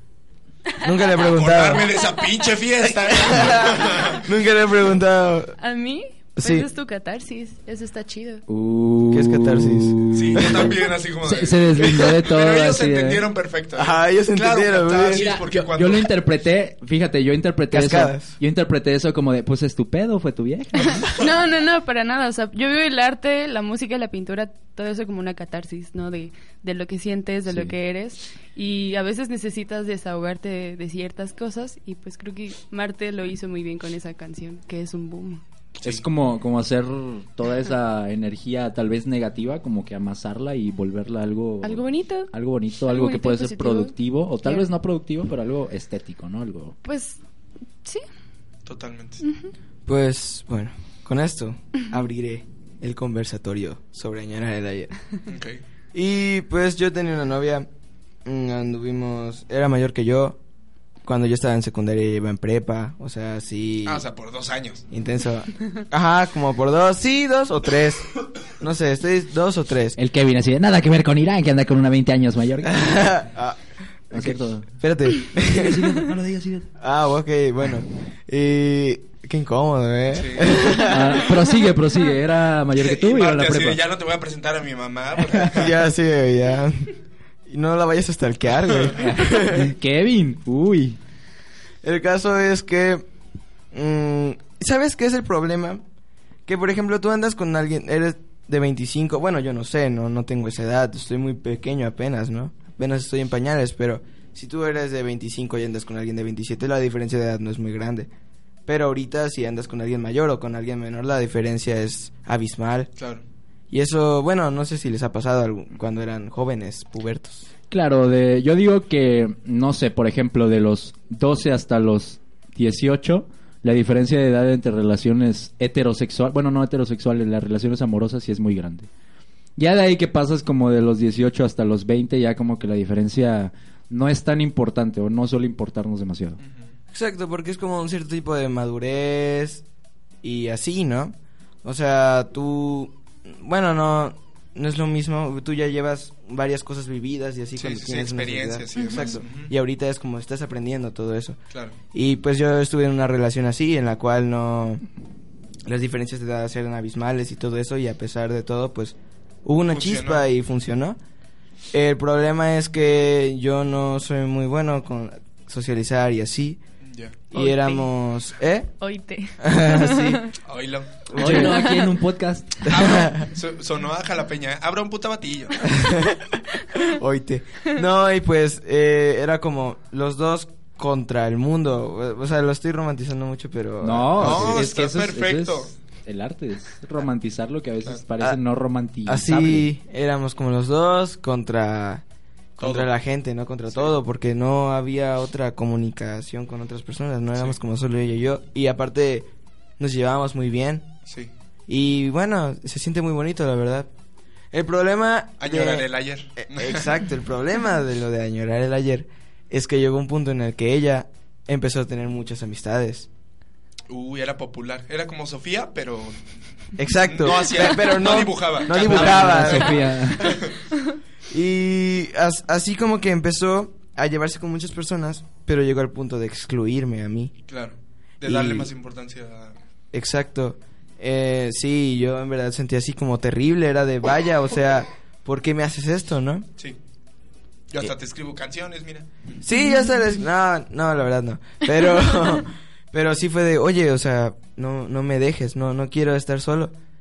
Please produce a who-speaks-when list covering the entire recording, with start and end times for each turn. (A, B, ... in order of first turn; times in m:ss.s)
0:00.8-0:01.9 A
0:01.2-0:04.3 B
0:03.1-0:05.6 A
0:05.6-0:08.4 C
0:06.4-0:06.7 A
0:08.5-0:13.2 D
0:09.1-0:10.8 A
0:10.1-0:16.1 B
0:13.8-0:15.2 A
0:15.1-0:21.1 D
0:17.7-0:18.3 A
0:20.9-0:35.4 C
0:27.4-0:27.7 D
0:35.8-0:46.7 D
0:41.6-0:42.3 C
0:42.9-0:43.9 C
0:44.4-0:44.7 C
0:46.8-0:47.2 C
0:48.6-0:49.2 B
0:49.2-0:49.5 C
0:49.9-0:54.9 A
0:55.2-0:55.6 B
0:55.9-0:57.7 A
0:58.2-1:00.4 A
1:01.0-1:04.0 A
1:03.8-1:04.8 B
1:04.9-1:10.0 A
1:10.0-1:12.9 D
1:12.6-1:13.6 A
1:14.1-1:16.0 A
1:14.1-1:14.7 D
1:15.3-1:16.7 D
1:16.8-1:21.4 A
1:20.1-1:20.8 B
1:20.8-1:23.8 D
1:22.7-1:25.8 B
1:25.5-1:26.9 A
1:27.5-1:29.7 A
1:28.7-1:29.0 B
1:28.9-1:31.0 D
1:31.8-1:33.0 A
1:33.7-1:35.8 A
1:36.4-1:48.1 A
1:48.7-1:52.9 A
1:53.0-1:53.2 B
1:53.7-1:57.5 A
1:57.7-2:08.9 D
2:09.6-2:16.4 D
2:16.4-2:16.6 B
2:16.9-2:19.6 A
2:20.2-2:31.4 A
2:27.6-2:29.5 B
2:28.8-2:29.2 C
2:31.5-2:31.8 B
2:31.9-2:34.8 A
2:35.6-2:41.0 A
2:39.7-2:40.2 B
2:41.7-2:46.6 A
2:46.8-2:47.2 B
2:47.3-2:48.7 A
2:47.3-2:47.9 C
2:48.8-2:50.2 C
2:49.4-2:50.3 A
2:50.4-2:51.0 B
2:51.1-2:51.7 A
2:51.1-2:53.1 D
2:51.3-2:51.9 C
2:52.7-2:55.7 B
2:52.7-2:53.3 A
2:55.6-3:04.6 A
3:03.8-3:09.6 D
3:04.2-3:05.7 B
3:09.0-3:12.0 A
3:12.6-3:19.2 A
3:12.6-3:12.9 B
3:19.8-3:20.9 A
3:21.1-3:21.3 B
3:21.7-3:23.9 A
3:24.5-3:33.1 A
3:25.4-3:26.9 B
3:33.9-3:36.2 B
3:36.8-3:40.3 A
3:37.0-3:40.5 B
3:38.7-3:40.4 D
3:41.3-3:47.3 A
3:47.5-3:49.6 B
3:48.2-3:48.7 A
3:49.9-3:56.4 A
3:57.7-3:59.4 B
3:59.4-4:06.7 A